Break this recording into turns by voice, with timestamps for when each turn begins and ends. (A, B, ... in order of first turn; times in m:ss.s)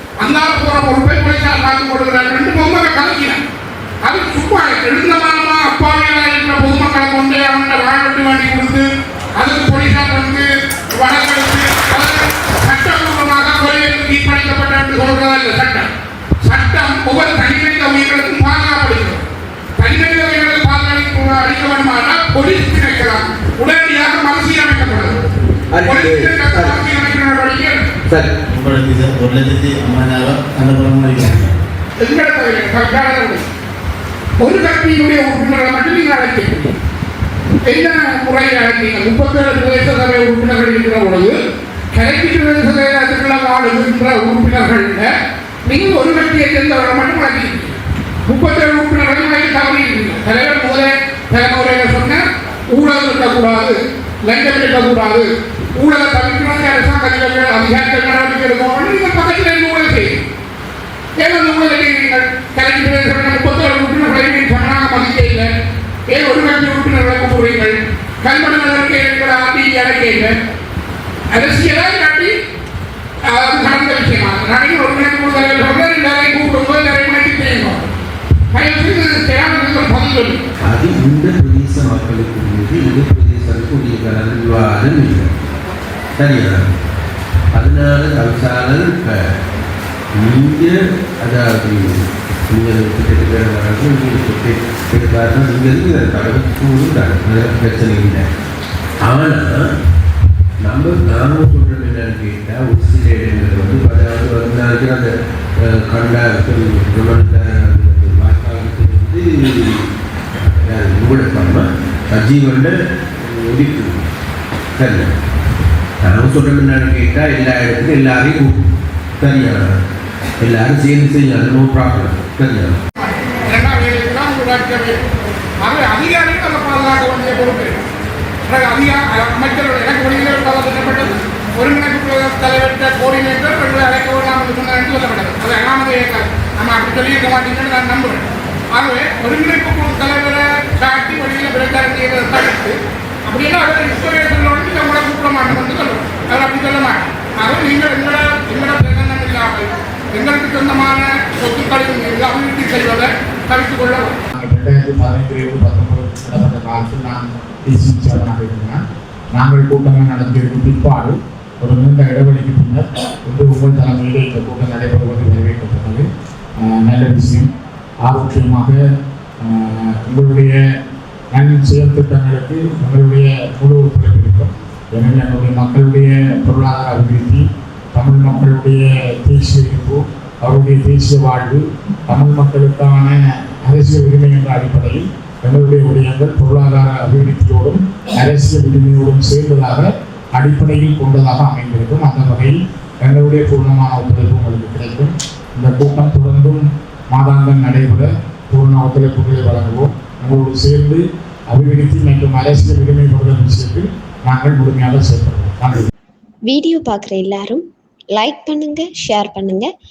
0:00.2-0:03.4 A
0:04.0-0:08.9 A
0:09.4-0:15.9 A
0:16.4-0:19.2 A
0:19.8-0:25.2 A
0:25.8-0:26.7 B
0:25.8-0:27.9 A
0:28.5-0:31.5 C
0:32.0-0:33.5 A
0:34.4-0:36.7 A
0:37.7-0:41.4 A
0:41.9-0:45.1 A
0:45.6-1:00.2 A
1:01.2-1:05.5 A
1:06.1-1:10.4 A
1:11.3-1:12.3 A
1:13.3-1:17.8 A
1:18.5-1:20.4 A
1:20.7-1:25.3 B
1:26.2-1:26.6 B
1:27.6-1:29.2 B
1:30.2-1:31.9 B
1:32.5-1:38.2 B
1:39.1-1:39.5 B
1:40.6-1:45.1 B
1:45.7-1:49.8 B
1:50.7-1:53.9 B
1:54.8-1:55.1 B
1:56.0-1:58.6 B
1:59.2-1:59.7 B
2:00.4-2:02.8 B
2:03.0-2:05.0 A
2:05.6-2:07.8 A
2:08.5-2:34.2 A
2:34.4-2:38.8 D
2:39.3-2:46.1 D
2:46.6-2:47.5 D
2:48.0-2:48.8 D
2:49.4-2:50.6 D
2:51.3-3:25.9 D
3:26.5-3:29.7 E